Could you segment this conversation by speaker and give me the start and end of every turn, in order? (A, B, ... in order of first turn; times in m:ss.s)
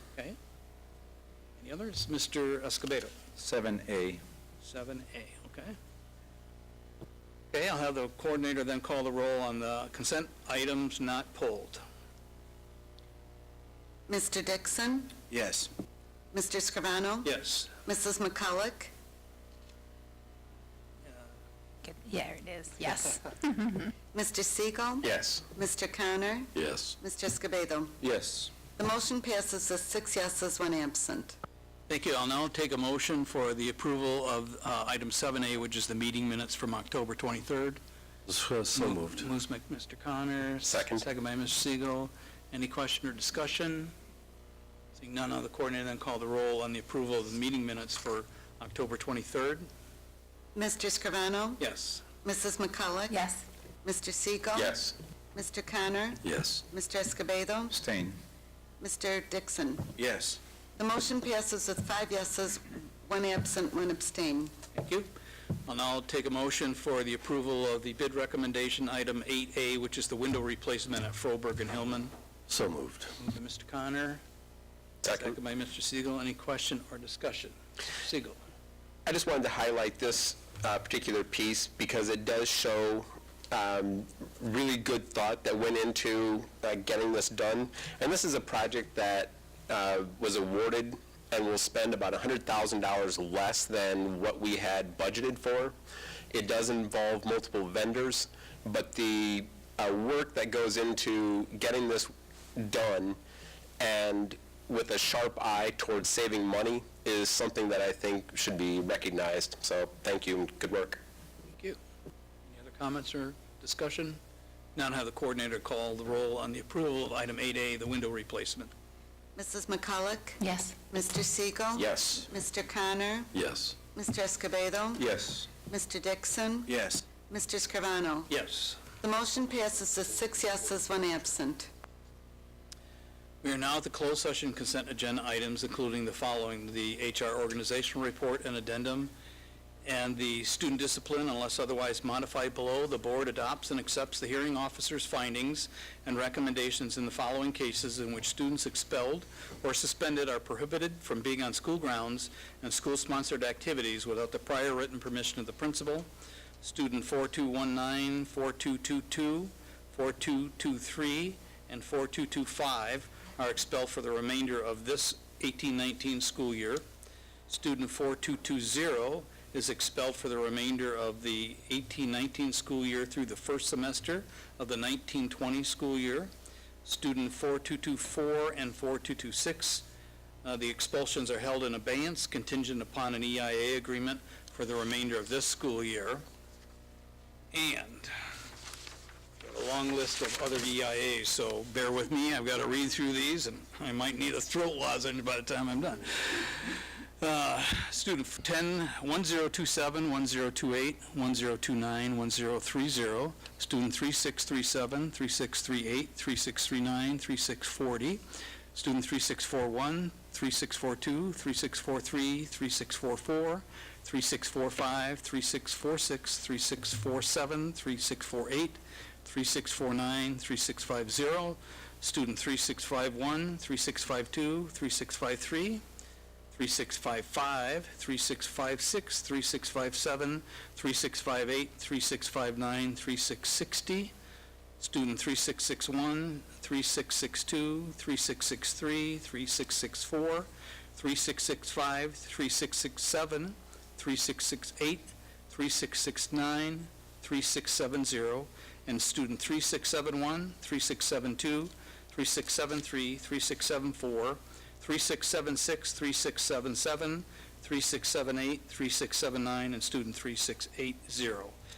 0:01.6-0:03.2 A
0:03.4-0:04.2 B
0:04.6-0:05.8 A
0:07.5-0:11.8 A
0:14.1-0:15.2 C
0:15.3-0:15.7 B
0:16.3-0:17.3 C
0:17.2-0:17.7 A
0:17.8-0:18.9 C
0:21.8-0:23.9 D
0:24.1-0:28.0 C
0:25.0-0:25.4 E
0:26.6-0:26.9 F
0:28.6-0:31.3 C
0:31.9-0:37.8 A
0:38.3-0:39.2 F
0:38.7-0:43.9 A
0:40.6-0:41.0 E
0:44.9-0:49.7 A
0:50.5-0:51.6 C
0:51.6-0:52.0 A
0:52.2-0:53.2 C
0:53.1-0:53.4 D
0:53.8-0:54.7 C
0:54.5-0:55.0 E
0:55.3-0:57.7 C
0:56.2-0:56.6 F
0:57.7-0:58.2 B
0:58.8-0:59.9 C
1:00.0-1:00.4 B
1:00.8-1:04.5 C
1:04.7-1:05.1 A
1:05.7-1:12.1 A
1:12.5-1:13.1 F
1:13.2-1:14.2 A
1:15.0-1:18.4 A
1:19.0-1:35.7 E
1:36.3-1:43.2 E
1:43.8-1:51.0 E
1:51.5-1:51.8 A
1:52.4-1:54.2 A
1:54.7-1:58.7 A
1:59.4-2:03.3 C
2:00.4-2:00.8 D
2:01.7-2:02.3 E
2:03.3-2:03.8 F
2:03.9-2:08.3 C
2:05.0-2:05.4 E
2:06.7-2:07.1 B
2:08.3-2:08.8 A
2:09.0-2:11.7 C
2:13.4-2:19.1 A
2:19.8-2:36.1 A
2:36.6-2:46.8 A
2:47.5-2:56.3 A
2:56.8-2:59.8 A
3:00.4-3:06.2 A
3:07.5-3:08.1 A
3:09.4-3:28.2 A
3:28.7-3:45.8 A
3:46.5-3:54.1 A
3:54.8-4:21.5 A